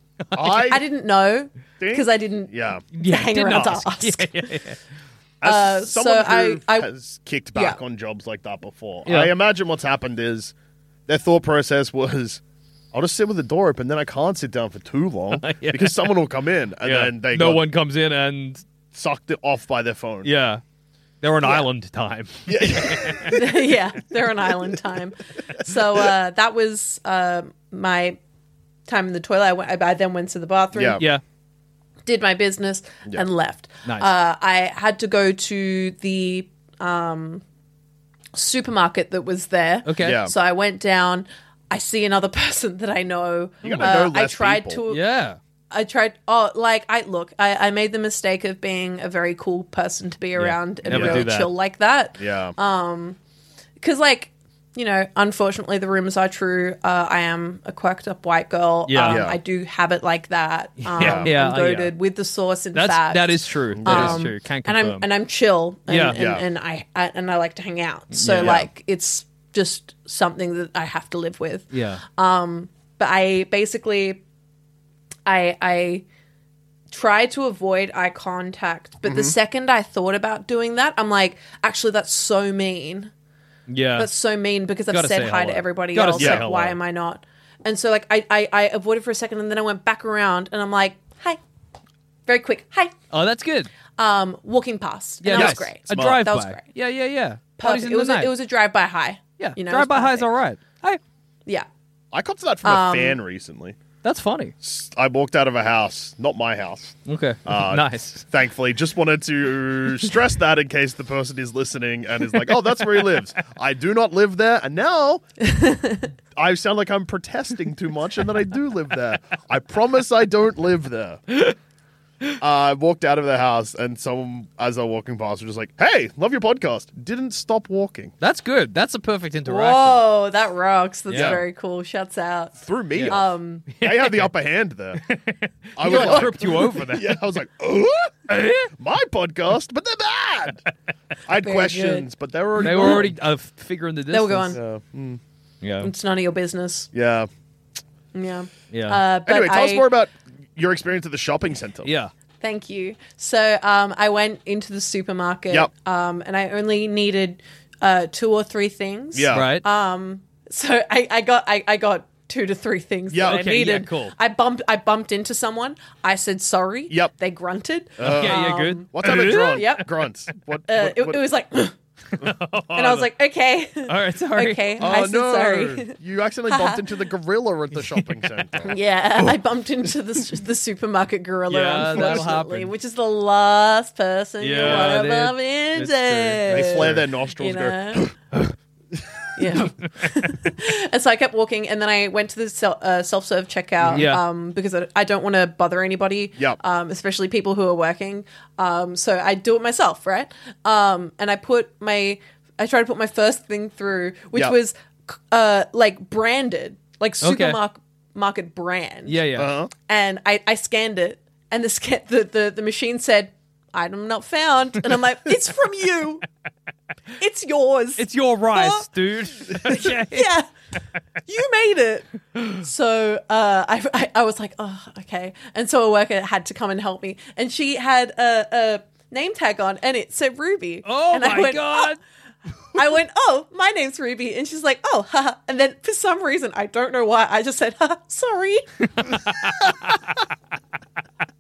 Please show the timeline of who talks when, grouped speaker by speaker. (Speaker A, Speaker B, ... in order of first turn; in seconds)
Speaker A: 0.3-0.7, 2.9-4.8, 9.1-9.3, 15.4-16.1, 16.8-18.6, 20.2-20.6, 21.2-23.4, 33.9-34.1, 39.9-40.2, 43.6-43.9, 44.9-45.4, 50.4-51.5, 58.9-59.3, 60.8-61.9, 62.7-65.1, 65.9-66.2, 68.1-68.6, 71.7-72.0, 83.7-84.1, 84.9-86.8, 93.1-93.7, 95.2-98.3, 99.4-101.0, 104.0-104.5, 107.1-108.2, 128.2-130.0, 131.1-131.4, 133.7-134.3, 135.0-137.2, 138.3-138.7, 142.6-144.6, 145.6-145.9, 148.7-149.0, 151.8-152.1, 159.3-159.7, 163.2-164.2, 168.0-169.7, 172.2-173.1, 173.8-174.9, 178.0-178.4, 181.5-182.7, 184.4-187.0, 193.9-194.2, 207.2-207.6, 209.1-209.5, 218.0-220.3, 230.8-232.0, 239.0-240.0
Speaker B: 0.3-0.8, 1.8-2.8, 5.4-10.5, 11.1-12.4, 12.9-17.6, 18.9-20.3, 22.5-23.5, 30.7-31.0, 40.0-40.3, 43.6-44.8, 50.9-51.3, 52.2-52.5, 59.0-59.4, 61.0-61.3, 63.8-64.3, 66.1-66.4, 68.3-68.7, 79.0-79.3, 86.2-86.5, 95.3-96.3, 102.1-103.8, 104.6-115.2, 116.4-121.2, 122.4-128.1, 131.1-131.4, 132.6-135.0, 135.8-140.6, 141.3-143.2, 144.5-145.2, 146.9-147.3, 149.2-151.9, 159.1-159.5, 163.1-163.4, 168.0-171.2, 174.8-178.8, 181.8-182.3, 184.6-185.0, 186.5-188.1, 193.8-194.1, 209.4-209.7
Speaker C: 0.7-4.3, 5.4-6.9, 23.3-28.2, 28.9-31.0, 32.1-37.4, 38.4-45.0, 45.7-53.2, 53.8-74.2, 75.3-76.0, 76.9-83.1, 84.0-91.4, 92.3-92.9, 94.0-96.6, 97.6-100.3, 102.6-103.2, 115.4-116.1, 129.5-132.6, 133.1-133.7, 135.8-136.5, 141.3-143.1, 144.1-144.6, 145.8-146.9, 148.1-149.9, 152.4-169.8, 170.7-171.8, 172.7-176.0, 176.5-176.8, 178.7-188.1, 189.4-209.2, 209.8-216.2, 217.2-218.9, 219.5-220.5, 221.3-231.9, 232.8-238.7